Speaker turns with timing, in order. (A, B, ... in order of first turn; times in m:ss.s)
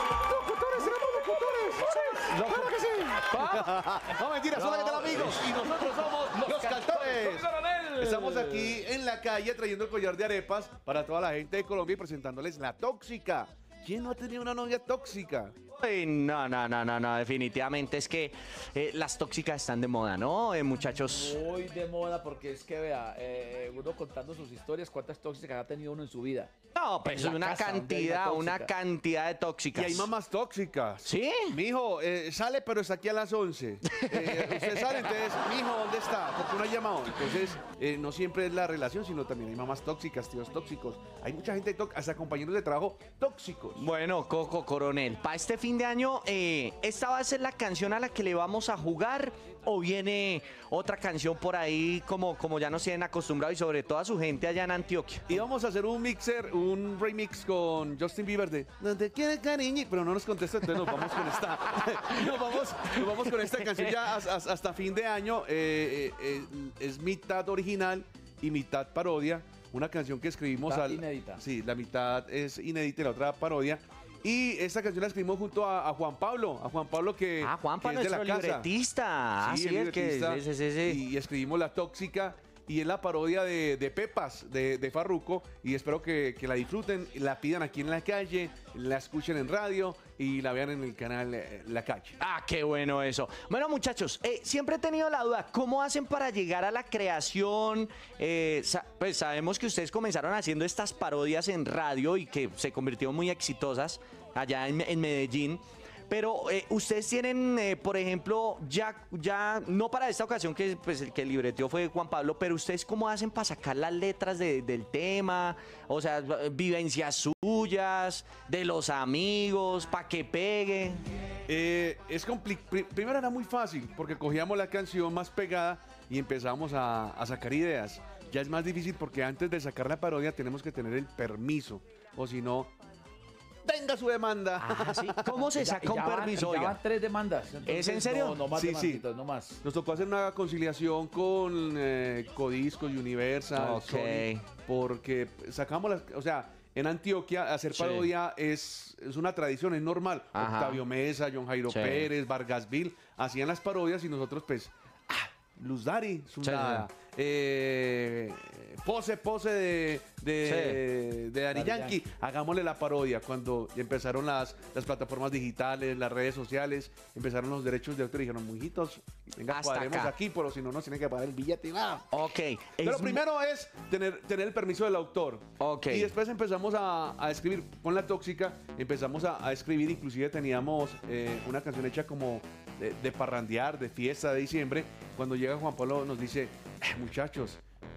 0:00.3-0:04.0 A
0:00.7-0:01.9 B
0:02.4-0:15.6 B
0:04.5-0:08.8 A
0:15.8-0:21.4 C
0:21.0-0:26.5 A
0:26.8-0:30.1 C
0:27.0-0:28.7 A
0:29.8-0:43.9 B
0:31.0-0:31.6 C
0:33.9-0:35.3 C
0:43.8-0:55.4 C
0:55.3-1:18.7 B
1:03.0-1:04.0 C
1:10.6-1:11.4 A
1:17.4-1:21.0 C
1:19.4-1:32.2 B
1:32.2-2:01.0 C
2:01.5-2:12.7 B
2:13.6-2:15.5 B
2:14.6-2:16.8 C
2:15.6-2:19.6 A
2:17.7-2:18.5 C
2:18.5-2:19.0 B
2:19.6-2:52.1 B
2:23.5-2:24.4 C
2:27.7-2:28.1 C
2:30.4-2:30.8 C
2:31.7-2:32.1 C
2:36.4-2:36.9 C
2:40.4-2:40.8 C
2:41.5-2:42.0 A
2:49.5-2:50.1 C
2:52.1-2:53.2 C
2:52.8-3:07.6 B
2:55.6-2:56.2 C